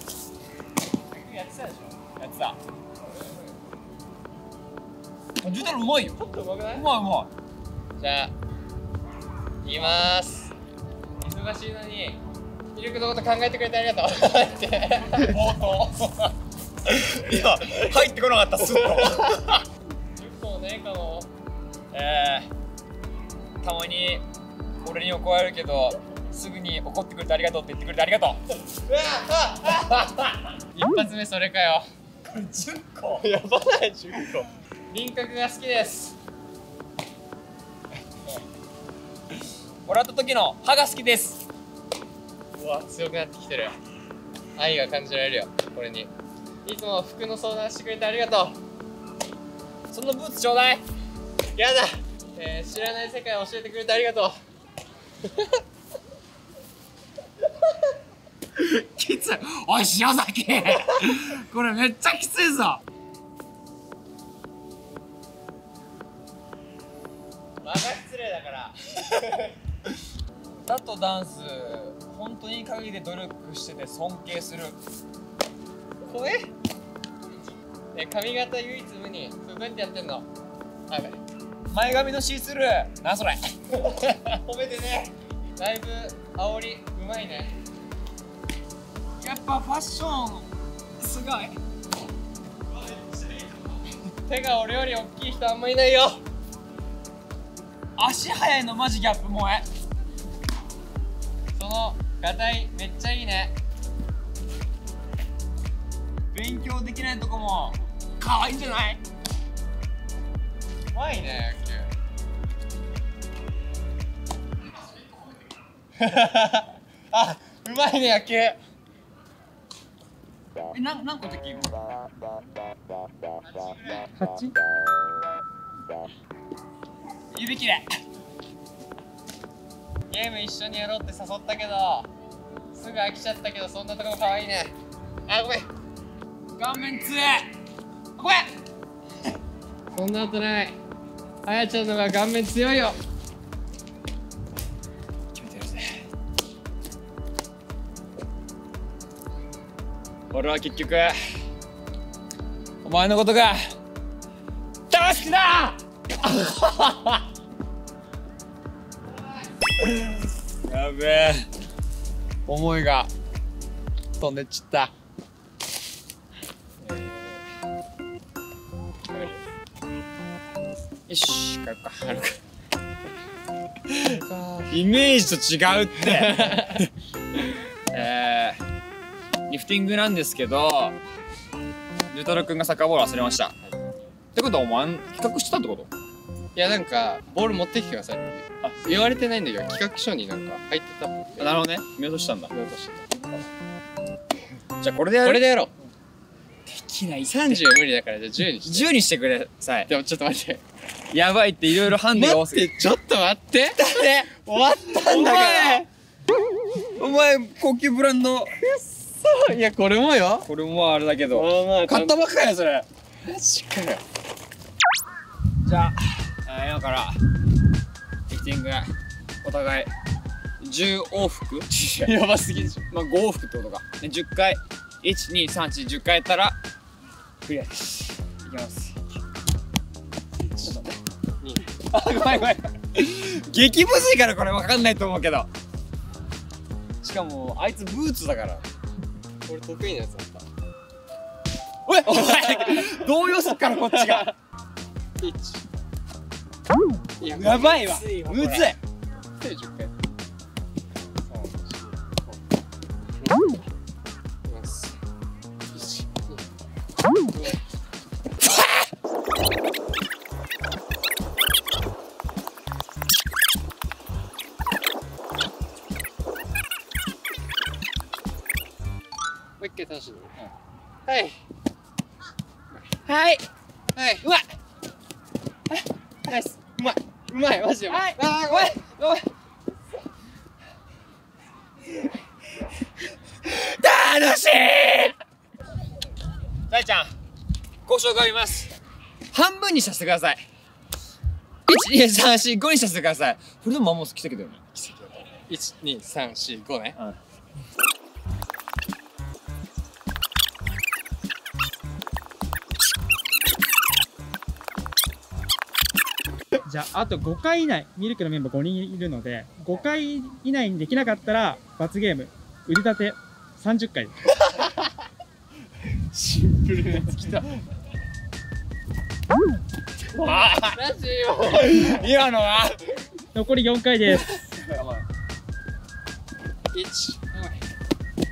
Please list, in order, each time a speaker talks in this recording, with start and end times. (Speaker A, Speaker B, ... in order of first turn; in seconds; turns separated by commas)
Speaker A: 1.1-2.0, Speaker B: 2.2-2.6, Speaker B: 5.4-7.3, Speaker A: 6.1-6.8, Speaker A: 8.0-8.3, Speaker A: 9.6-10.5, Speaker A: 11.2-12.2, Speaker A: 12.7-15.4, Speaker B: 15.2-16.3, Speaker B: 16.9-19.6, Speaker A: 20.1-21.3, Speaker B: 21.9-22.5, Speaker B: 23.6-24.2, Speaker B: 24.8-28.4, Speaker A: 28.9-29.6, Speaker A: 30.7-31.9, Speaker B: 32.2-33.2, Speaker A: 33.1-36.1, Speaker B: 39.9-41.4, Speaker A: 42.6-43.7, Speaker A: 44.6-46.1, Speaker A: 46.6-48.6, Speaker B: 49.9-50.8, Speaker A: 51.5-54.4, Speaker B: 58.6-62.8, Speaker A: 67.6-68.9, Speaker B: 70.7-74.8, Speaker A: 76.1-76.5, Speaker A: 77.9-80.2, Speaker A: 80.9-81.2, Speaker B: 81.7-84.8, Speaker A: 84.6-85.0, Speaker A: 85.6-87.5, Speaker B: 89.2-91.6, Speaker A: 94.2-96.2, Speaker B: 98.0-99.7, Speaker A: 101.5-103.5, Speaker B: 106.3-109.0, Speaker A: 110.9-111.9, Speaker A: 116.0-118.6, Speaker B: 120.7-121.7, Speaker A: 123.5-124.1, Speaker C: 124.2-124.5, Speaker B: 127.3-127.9, Speaker A: 130.1-132.1, Speaker A: 132.7-134.7, Speaker A: 135.3-135.7, Speaker B: 136.6-137.5, Speaker B: 138.2-138.5, Speaker A: 139.9-140.8, Speaker A: 141.4-143.0, Speaker B: 145.3-145.9, Speaker B: 150.3-151.2, Speaker B: 152.8-153.7, Speaker B: 154.9-157.2, Speaker B: 159.8-161.5, Speaker B: 162.4-163.1, Speaker B: 164.2-164.9, Speaker A: 166.8-167.4, Speaker A: 169.1-169.4, Speaker B: 171.1-172.4, Speaker A: 174.0-174.7, Speaker B: 174.7-176.8, Speaker A: 176.0-176.9, Speaker B: 177.9-178.6, Speaker B: 179.5-181.0, Speaker B: 182.1-183.5, Speaker B: 184.3-185.9, Speaker A: 186.5-191.6, Speaker B: 191.4-192.5, Speaker A: 192.5-193.2, Speaker B: 194.8-195.4, Speaker A: 195.2-195.7, Speaker B: 196.7-197.7, Speaker A: 197.2-198.9, Speaker B: 198.6-199.9, Speaker A: 199.9-200.6, Speaker B: 201.1-202.7, Speaker A: 202.1-205.8, Speaker B: 203.8-204.3, Speaker B: 204.8-205.8, Speaker B: 206.9-208.5, Speaker A: 208.6-210.5, Speaker B: 210.4-212.9, Speaker A: 211.3-212.2, Speaker A: 213.2-214.0, Speaker B: 215.6-217.2, Speaker B: 218.3-218.9, Speaker B: 219.4-219.9, Speaker B: 220.6-222.1, Speaker A: 222.0-222.9, Speaker B: 222.9-226.6, Speaker B: 227.4-229.0, Speaker A: 230.4-230.9, Speaker B: 230.6-230.9, Speaker A: 231.4-231.8, Speaker B: 231.8-235.5, Speaker B: 237.0-238.6, Speaker A: 239.4-240.4, Speaker B: 241.8-244.3, Speaker A: 243.9-244.3, Speaker A: 245.2-245.6, Speaker A: 247.2-248.7, Speaker B: 247.2-248.8, Speaker A: 249.4-249.9, Speaker A: 251.3-252.2, Speaker A: 253.2-253.6, Speaker A: 254.5-255.0, Speaker A: 255.7-256.4, Speaker A: 257.3-257.6, Speaker A: 269.6-270.4, Speaker A: 271.1-271.4, Speaker B: 273.1-273.4, Speaker A: 273.9-274.2, Speaker A: 276.3-278.7, Speaker B: 277.9-279.2, Speaker B: 283.4-285.1, Speaker B: 286.7-287.1, Speaker B: 287.9-288.7, Speaker B: 289.3-290.4, Speaker B: 291.7-294.7, Speaker A: 294.8-297.0, Speaker C: 306.6-314.1, Speaker A: 316.1-317.5, Speaker B: 320.1-320.8, Speaker A: 320.3-322.0, Speaker B: 321.5-322.9, Speaker C: 323.3-324.3, Speaker B: 324.4-325.0, Speaker A: 326.7-327.6